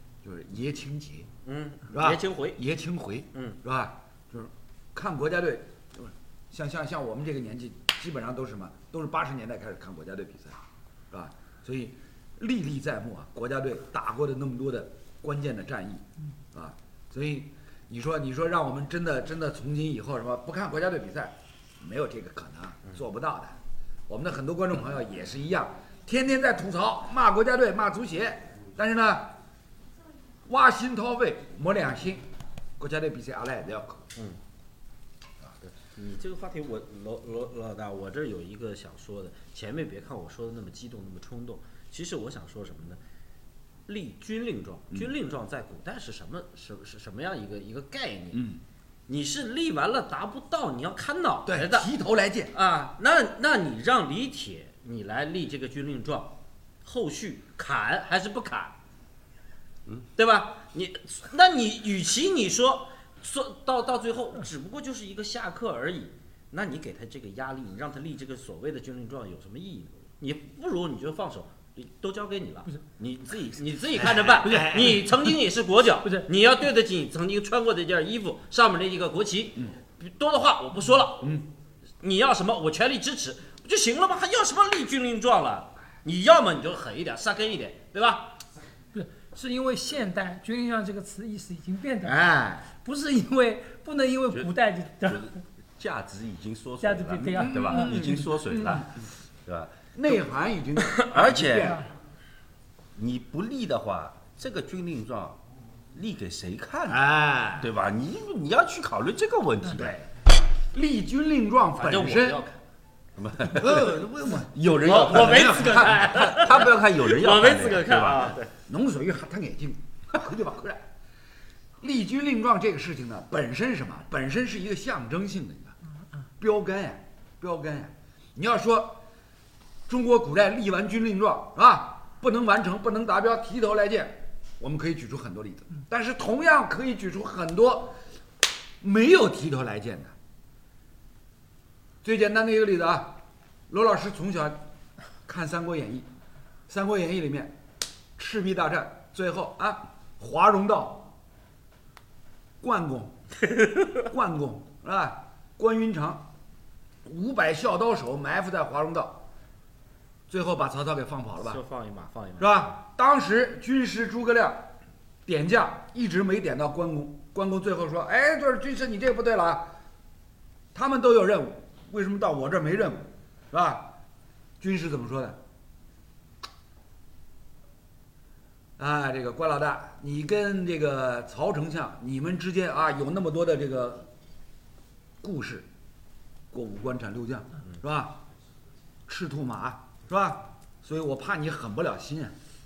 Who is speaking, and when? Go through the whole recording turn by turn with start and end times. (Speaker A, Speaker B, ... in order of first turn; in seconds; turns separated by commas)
Speaker A: 0.2-1.3, Speaker B: 1.4-2.6, Speaker A: 1.9-10.6, Speaker B: 3.3-3.6, Speaker A: 11.1-23.6, Speaker A: 24.1-29.3, Speaker A: 30.4-32.2, Speaker A: 32.8-34.0, Speaker B: 35.6-43.0, Speaker B: 43.9-48.4, Speaker A: 48.3-48.6, Speaker B: 49.1-51.9, Speaker A: 51.5-52.5, Speaker B: 52.5-58.7, Speaker B: 60.1-81.4, Speaker A: 74.2-75.0, Speaker B: 82.0-88.4, Speaker C: 88.9-95.3, Speaker A: 92.0-92.7, Speaker D: 95.0-100.2, Speaker C: 96.8-98.3, Speaker A: 97.4-98.9, Speaker A: 99.9-101.8, Speaker D: 100.9-101.8, Speaker C: 101.5-101.9, Speaker D: 102.9-105.4, Speaker D: 105.9-107.0, Speaker A: 106.9-107.7, Speaker D: 107.6-109.9, Speaker A: 109.8-110.1, Speaker A: 110.7-112.4, Speaker B: 111.8-112.6, Speaker D: 113.2-118.4, Speaker A: 113.5-116.4, Speaker B: 114.8-118.5, Speaker A: 118.7-120.8, Speaker A: 121.8-125.7, Speaker A: 126.4-129.0, Speaker A: 129.9-138.0, Speaker A: 138.8-140.1, Speaker A: 142.0-144.6, Speaker A: 145.2-146.1, Speaker A: 146.7-147.5, Speaker A: 148.2-151.1, Speaker A: 152.6-153.2, Speaker A: 154.0-156.3, Speaker A: 157.0-159.2, Speaker A: 160.3-161.6, Speaker B: 161.4-162.5, Speaker A: 162.4-164.7, Speaker A: 165.2-169.7, Speaker A: 170.7-174.0, Speaker A: 174.6-175.4, Speaker A: 178.8-184.1, Speaker A: 185.2-185.7, Speaker A: 186.5-188.2, Speaker A: 189.1-192.3